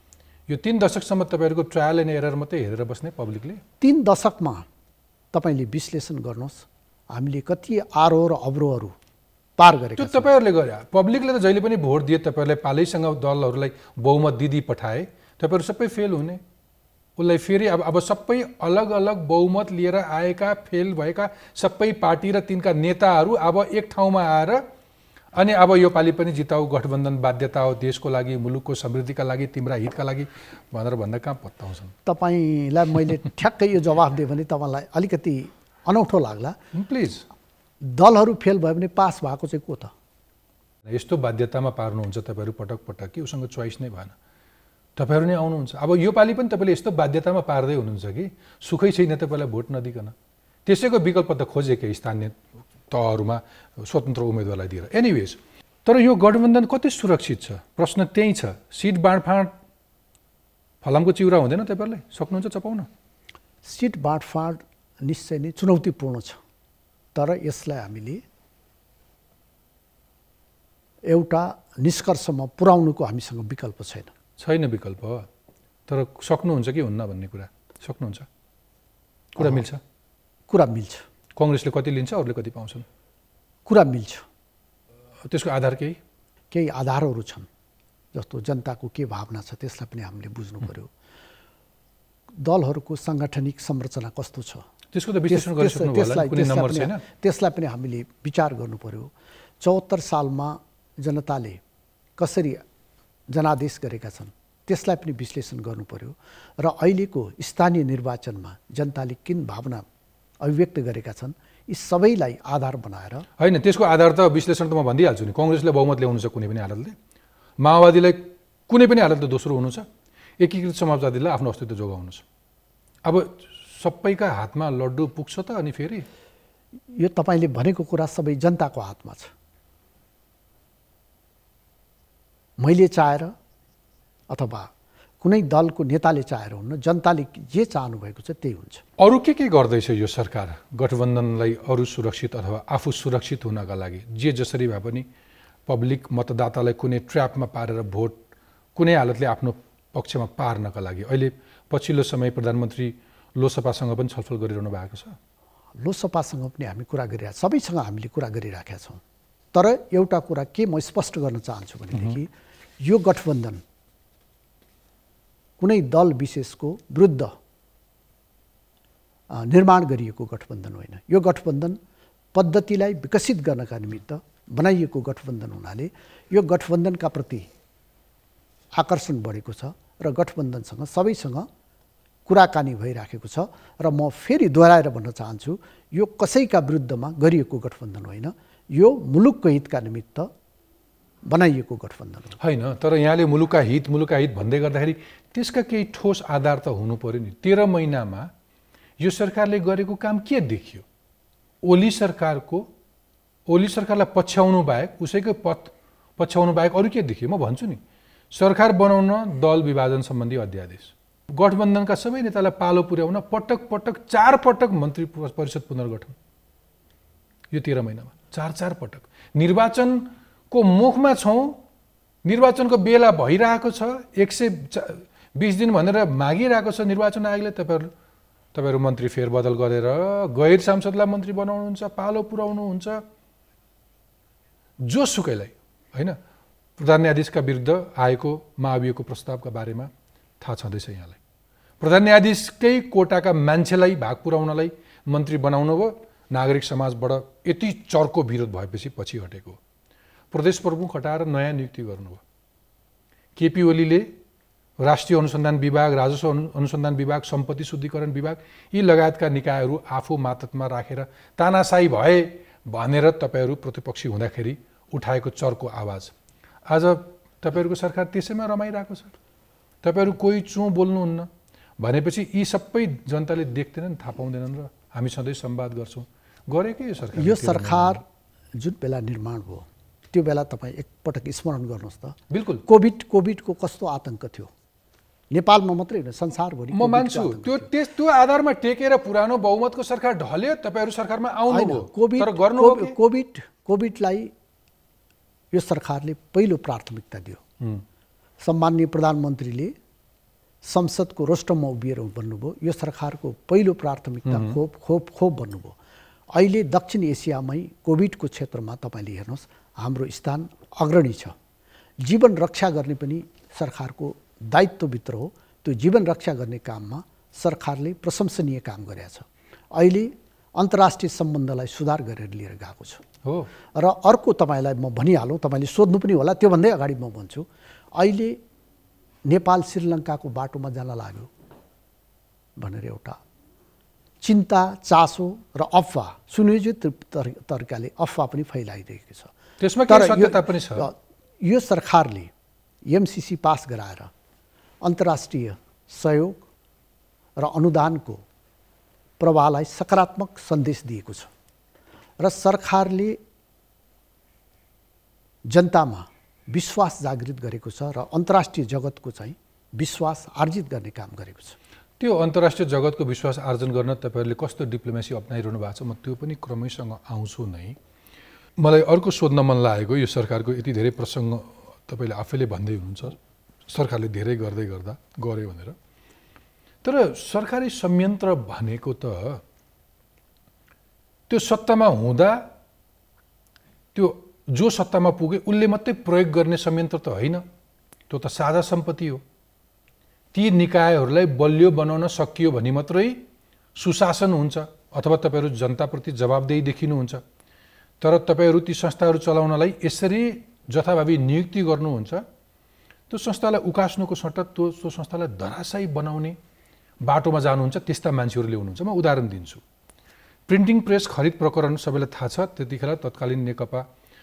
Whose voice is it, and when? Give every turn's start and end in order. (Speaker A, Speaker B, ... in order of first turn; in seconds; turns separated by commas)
Speaker A: 0.5-3.6, Speaker B: 3.8-4.7, Speaker B: 5.3-8.9, Speaker B: 9.6-10.3, Speaker A: 10.0-16.4, Speaker A: 17.2-24.6, Speaker A: 25.3-31.9, Speaker B: 32.0-36.5, Speaker A: 36.7-37.2, Speaker B: 37.8-39.9, Speaker A: 40.8-44.1, Speaker A: 45.0-50.1, Speaker A: 50.6-52.4, Speaker A: 52.9-59.5, Speaker A: 60.8-62.9, Speaker B: 63.6-66.4, Speaker B: 67.1-68.2, Speaker B: 71.0-74.1, Speaker A: 74.4-75.3, Speaker A: 75.9-78.3, Speaker A: 79.3-79.8, Speaker B: 80.5-81.0, Speaker A: 81.3-82.8, Speaker B: 83.7-84.2, Speaker A: 85.2-86.0, Speaker B: 86.5-87.5, Speaker B: 88.1-90.9, Speaker B: 92.4-94.7, Speaker A: 94.9-97.0, Speaker B: 95.3-101.6, Speaker B: 102.2-102.6, Speaker B: 103.3-109.8, Speaker B: 110.4-113.2, Speaker A: 113.4-117.0, Speaker A: 117.6-119.9, Speaker A: 120.4-122.2, Speaker A: 123.0-126.1, Speaker B: 126.9-129.3, Speaker B: 132.6-133.3, Speaker B: 134.3-134.7, Speaker B: 135.2-138.8, Speaker A: 139.0-145.1, Speaker A: 145.7-148.2, Speaker A: 148.7-155.2, Speaker B: 155.8-159.0, Speaker B: 159.5-162.3, Speaker B: 162.8-163.6, Speaker B: 165.6-167.3, Speaker B: 169.3-171.8, Speaker B: 172.3-177.5, Speaker B: 178.8-181.5, Speaker B: 182.2-190.3, Speaker B: 191.2-192.3, Speaker A: 192.4-198.3, Speaker A: 199.0-200.8, Speaker A: 201.6-202.7, Speaker A: 203.5-207.8, Speaker A: 208.3-216.1, Speaker A: 217.5-221.6, Speaker A: 222.2-227.9, Speaker A: 228.5-233.0, Speaker A: 234.8-236.2, Speaker A: 236.8-241.2, Speaker A: 241.8-249.6, Speaker A: 250.3-252.2, Speaker A: 253.3-254.1, Speaker A: 254.8-266.1, Speaker A: 266.6-269.1, Speaker A: 269.8-278.0, Speaker B: 277.1-278.0, Speaker B: 278.5-284.5, Speaker A: 282.3-282.6, Speaker B: 285.3-287.7, Speaker A: 286.7-292.9, Speaker B: 291.5-294.3, Speaker B: 295.5-297.4, Speaker B: 298.4-299.7, Speaker B: 300.6-305.8, Speaker A: 304.2-304.6, Speaker B: 306.3-311.4, Speaker B: 312.0-323.0, Speaker B: 323.8-328.4, Speaker B: 329.2-331.3, Speaker B: 332.6-333.2, Speaker B: 334.2-339.3, Speaker A: 339.6-340.9, Speaker B: 339.9-342.3, Speaker B: 342.9-344.1, Speaker B: 344.8-346.4, Speaker B: 347.4-348.2, Speaker B: 349.2-351.3, Speaker B: 352.2-353.2, Speaker B: 355.5-361.6, Speaker A: 362.0-367.8, Speaker A: 368.6-373.2, Speaker A: 373.7-375.8, Speaker A: 376.8-379.4, Speaker A: 381.3-382.5, Speaker A: 383.9-387.4, Speaker A: 388.1-389.2, Speaker A: 390.3-397.2, Speaker A: 398.0-402.2, Speaker A: 403.1-406.4, Speaker A: 407.0-409.6, Speaker A: 410.5-413.9